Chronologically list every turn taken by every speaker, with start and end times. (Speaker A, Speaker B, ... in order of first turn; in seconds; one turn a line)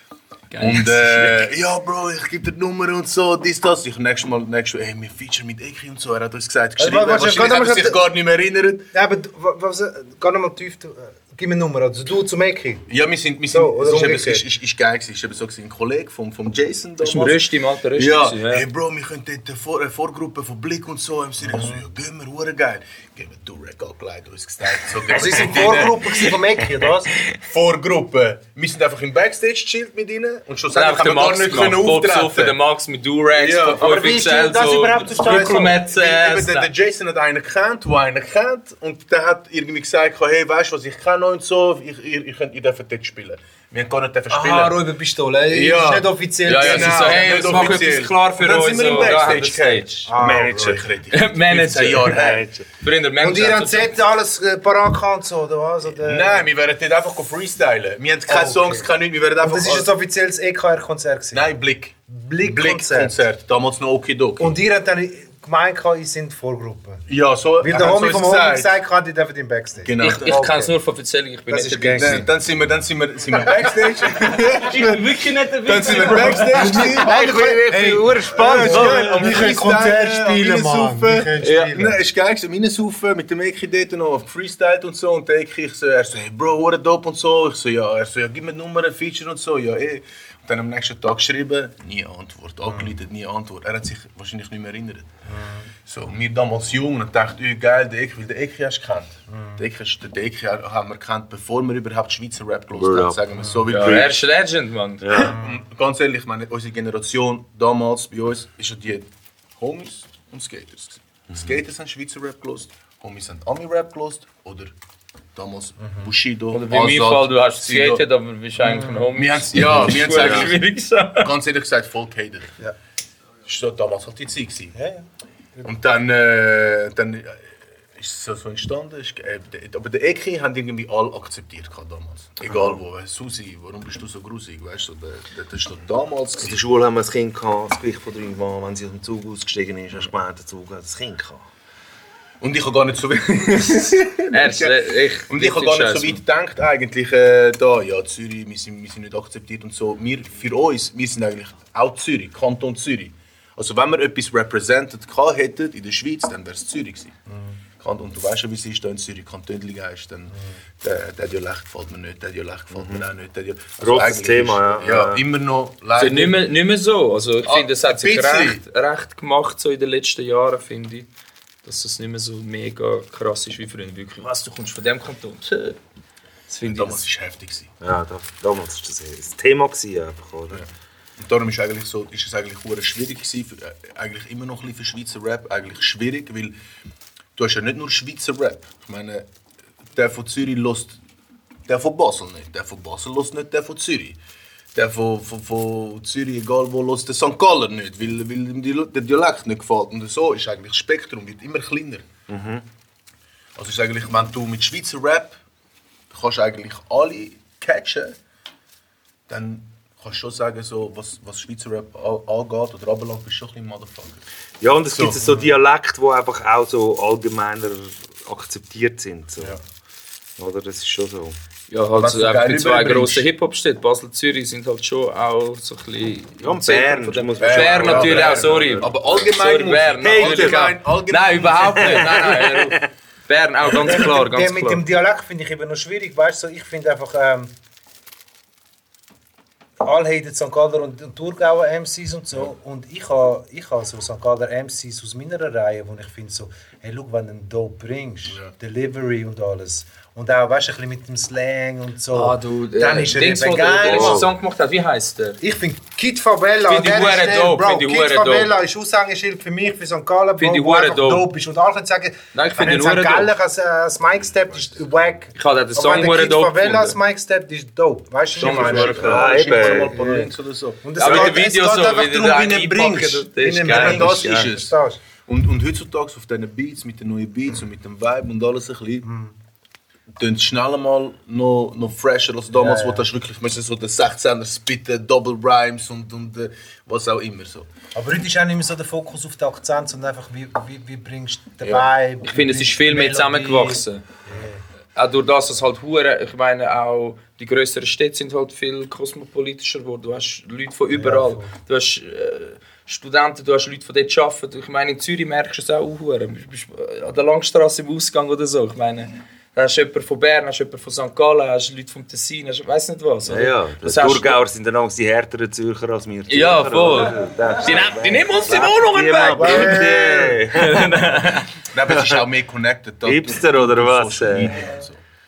Speaker A: 0.5-1.4
Speaker B: 0.6-8.8
Speaker C: 6.8-8.0
Speaker C: 8.9-12.8
Speaker B: 12.9-26.3
Speaker C: 13.5-14.4
Speaker A: 17.0-18.6
Speaker C: 21.4-21.8
Speaker C: 25.1-27.1
Speaker B: 27.4-32.6
Speaker A: 30.7-36.7
Speaker B: 33.3-44.8
Speaker C: 33.8-35.6
Speaker C: 44.3-47.5
Speaker B: 45.5-52.5
Speaker A: 46.5-50.1
Speaker C: 50.0-50.7
Speaker D: 50.1-50.8
Speaker A: 51.1-53.9
Speaker D: 52.1-52.6
Speaker C: 53.2-56.5
Speaker B: 55.9-59.9
Speaker C: 58.3-58.9
Speaker C: 59.4-61.5
Speaker B: 61.3-64.6
Speaker C: 62.1-63.2
Speaker C: 64.4-67.0
Speaker B: 67.1-68.7
Speaker C: 67.6-70.7
Speaker B: 69.8-70.5
Speaker A: 70.0-72.2
Speaker C: 71.5-72.2
Speaker B: 71.9-75.1
Speaker A: 74.6-76.9
Speaker B: 75.6-77.6
Speaker C: 76.5-82.0
Speaker D: 76.8-79.3
Speaker B: 78.2-95.1
Speaker C: 95.2-95.7
Speaker B: 95.8-104.2
Speaker C: 99.3-99.6
Speaker D: 102.7-103.2
Speaker A: 103.7-105.2
Speaker D: 103.7-104.1
Speaker D: 105.0-105.3
Speaker B: 105.2-114.7
Speaker B: 115.3-118.0
Speaker A: 116.5-121.3
Speaker C: 118.6-119.0
Speaker B: 119.1-120.7
Speaker B: 121.2-122.5
Speaker B: 123.4-124.8
Speaker C: 124.7-125.0
Speaker B: 125.6-136.6
Speaker D: 136.4-141.4
Speaker B: 142.4-157.1
Speaker A: 144.3-146.2
Speaker C: 157.3-157.5
Speaker B: 157.8-166.4
Speaker D: 162.7-163.0
Speaker D: 163.8-165.2
Speaker A: 166.0-171.1
Speaker B: 167.4-168.6
Speaker A: 171.6-175.8
Speaker A: 176.5-177.0
Speaker B: 176.6-177.7
Speaker D: 177.8-180.7
Speaker B: 180.5-186.5
Speaker B: 187.3-189.3
Speaker B: 189.9-191.0
Speaker B: 191.7-194.2
Speaker B: 194.7-202.1
Speaker D: 202.3-202.6
Speaker B: 203.6-205.4
Speaker B: 206.1-208.2
Speaker B: 209.3-214.2
Speaker D: 214.6-219.6
Speaker B: 214.9-215.4
Speaker D: 220.4-221.4
Speaker A: 221.7-234.8
Speaker B: 222.0-223.3
Speaker D: 226.4-228.8
Speaker B: 227.4-232.3
Speaker D: 230.0-230.6
Speaker D: 231.7-232.8
Speaker C: 234.0-237.5
Speaker C: 239.8-254.3
Speaker A: 252.1-255.4
Speaker C: 255.4-270.3
Speaker A: 256.6-258.5
Speaker A: 260.4-261.3
Speaker A: 262.3-263.3
Speaker A: 265.4-266.9
Speaker B: 268.4-274.7
Speaker A: 268.4-269.5
Speaker D: 268.9-270.0
Speaker C: 270.8-272.1
Speaker A: 271.0-274.5
Speaker C: 273.4-275.0
Speaker B: 275.3-279.1
Speaker C: 279.0-279.3
Speaker B: 280.1-287.7
Speaker C: 282.5-283.0
Speaker C: 287.9-294.6
Speaker B: 291.6-291.9
Speaker A: 292.2-294.0
Speaker A: 294.9-314.4
Speaker C: 300.9-301.5
Speaker D: 313.2-321.3
Speaker A: 316.3-321.5
Speaker C: 319.4-320.4
Speaker B: 321.7-325.0
Speaker D: 323.0-324.7